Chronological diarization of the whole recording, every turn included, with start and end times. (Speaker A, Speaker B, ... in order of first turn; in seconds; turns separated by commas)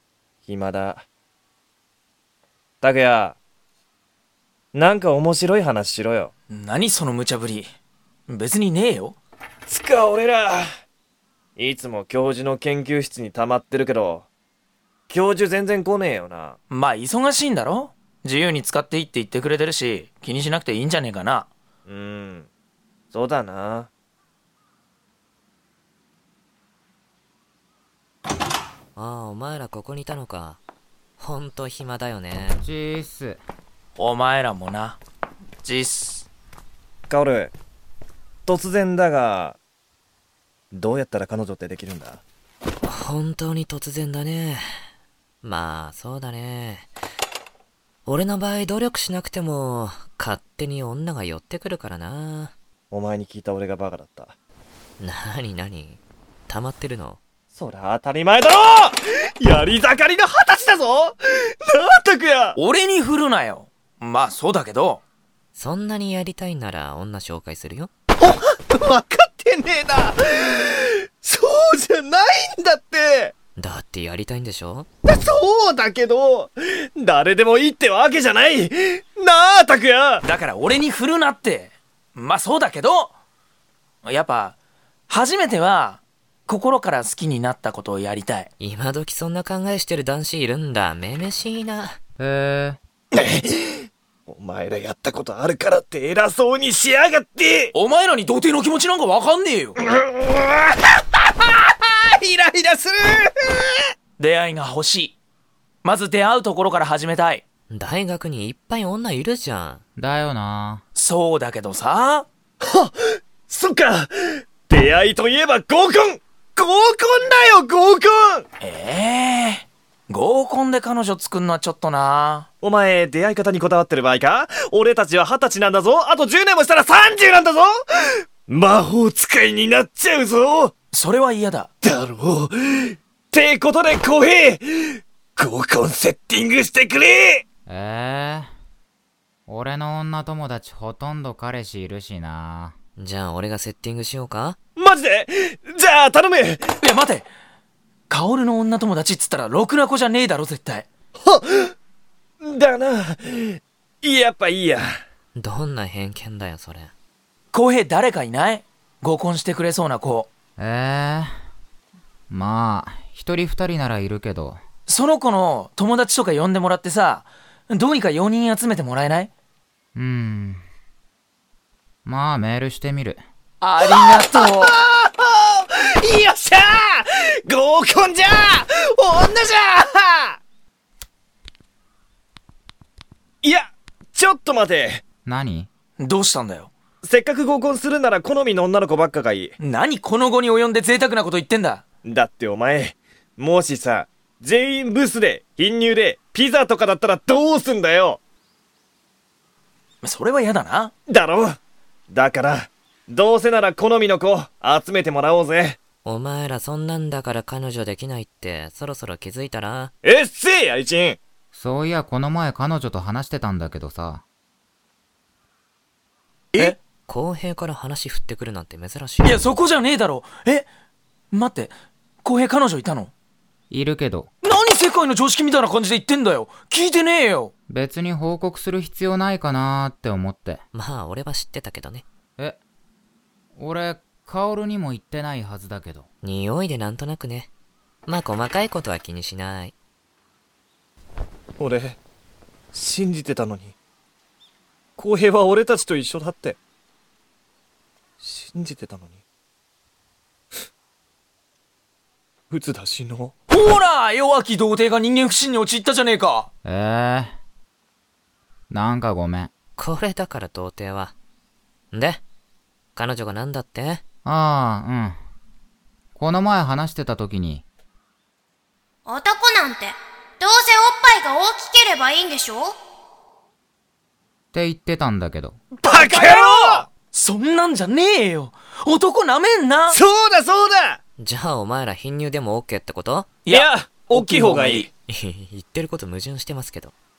Speaker A: 0.5-1.1, Speaker A: 2.8-3.4, Speaker A: 4.7-6.3, Speaker B: 6.5-7.7, Speaker B: 8.3-9.2, Speaker A: 9.7-10.7, Speaker A: 11.6-14.3, Speaker A: 15.1-16.6, Speaker B: 16.7-21.5, Speaker A: 21.9-22.5, Speaker A: 23.1-23.9, Speaker C: 28.9-30.6, Speaker C: 31.2-32.7, Speaker D: 32.6-33.4, Speaker B: 34.0-35.0, Speaker B: 35.6-36.3, Speaker A: 37.1-37.5, Speaker A: 38.5-39.6, Speaker A: 40.7-42.2, Speaker C: 42.8-44.6, Speaker C: 45.4-46.9, Speaker C: 48.0-52.5, Speaker A: 52.9-54.3, Speaker C: 55.0-57.2, Speaker A: 57.5-62.6, Speaker B: 62.5-65.0, Speaker C: 65.5-67.9, Speaker A: 68.2-73.3, Speaker C: 73.6-74.9, Speaker A: 75.0-80.2, Speaker B: 80.2-83.1, Speaker B: 84.0-84.5, Speaker B: 85.1-88.5, Speaker C: 88.6-92.0, Speaker D: 92.2-92.8, Speaker A: 93.1-97.7, Speaker B: 97.7-99.8, Speaker A: 99.8-103.8, Speaker B: 104.2-105.2, Speaker B: 105.8-107.4, Speaker C: 107.7-109.8, Speaker D: 110.0-110.8, Speaker B: 110.9-112.2, Speaker A: 112.6-118.5, Speaker B: 118.6-122.5, Speaker A: 122.6-127.8, Speaker A: 128.5-130.7, Speaker B: 130.9-131.7, Speaker A: 131.8-137.4, Speaker D: 137.7-138.5, Speaker D: 139.5-142.7, Speaker C: 143.0-144.6, Speaker A: 144.8-146.8, Speaker B: 146.8-147.3, Speaker B: 148.1-150.8, Speaker A: 151.2-151.7, Speaker A: 152.4-155.0, Speaker C: 155.3-156.9, Speaker B: 157.5-160.3, Speaker D: 160.6-161.3, Speaker D: 162.3-164.6, Speaker B: 164.9-169.3, Speaker D: 169.9-170.6, Speaker D: 172.1-173.2, Speaker B: 173.6-174.7, Speaker A: 173.8-180.4, Speaker A: 183.4-185.0, Speaker D: 185.2-185.7, Speaker B: 186.0-186.7, Speaker A: 187.0-189.5, Speaker B: 189.6-191.8, Speaker A: 192.0-198.2, Speaker B: 200.0-200.9, Speaker A: 201.1-201.6, Speaker A: 202.1-205.8, Speaker C: 206.0-209.9, Speaker A: 210.0-211.2, Speaker D: 211.5-214.2, Speaker C: 217.1-219.5, Speaker B: 219.2-220.7, Speaker B: 221.3-223.1, Speaker D: 223.7-224.3, Speaker B: 224.4-227.5, Speaker D: 227.7-230.6, Speaker C: 230.7-232.0, Speaker D: 233.6-236.1, Speaker C: 236.2-237.5, Speaker C: 238.1-239.7, Speaker A: 241.6-242.0, Speaker A: 242.7-243.7, Speaker A: 245.0-246.6, Speaker A: 248.2-249.2, Speaker A: 252.5-253.3, Speaker B: 253.5-256.5, Speaker D: 256.6-257.4, Speaker D: 258.7-259.5, Speaker C: 259.8-261.1, Speaker C: 261.9-262.2, Speaker C: 262.9-264.0, Speaker D: 264.2-265.2, Speaker D: 266.1-267.6, Speaker E: 269.1-269.9, Speaker E: 270.4-272.7, Speaker D: 274.5-275.6, Speaker B: 275.8-280.0, Speaker A: 275.8-276.9, Speaker A: 279.9-281.0, Speaker C: 281.2-283.3, Speaker B: 283.4-284.9, Speaker A: 283.5-284.9, Speaker C: 285.1-286.9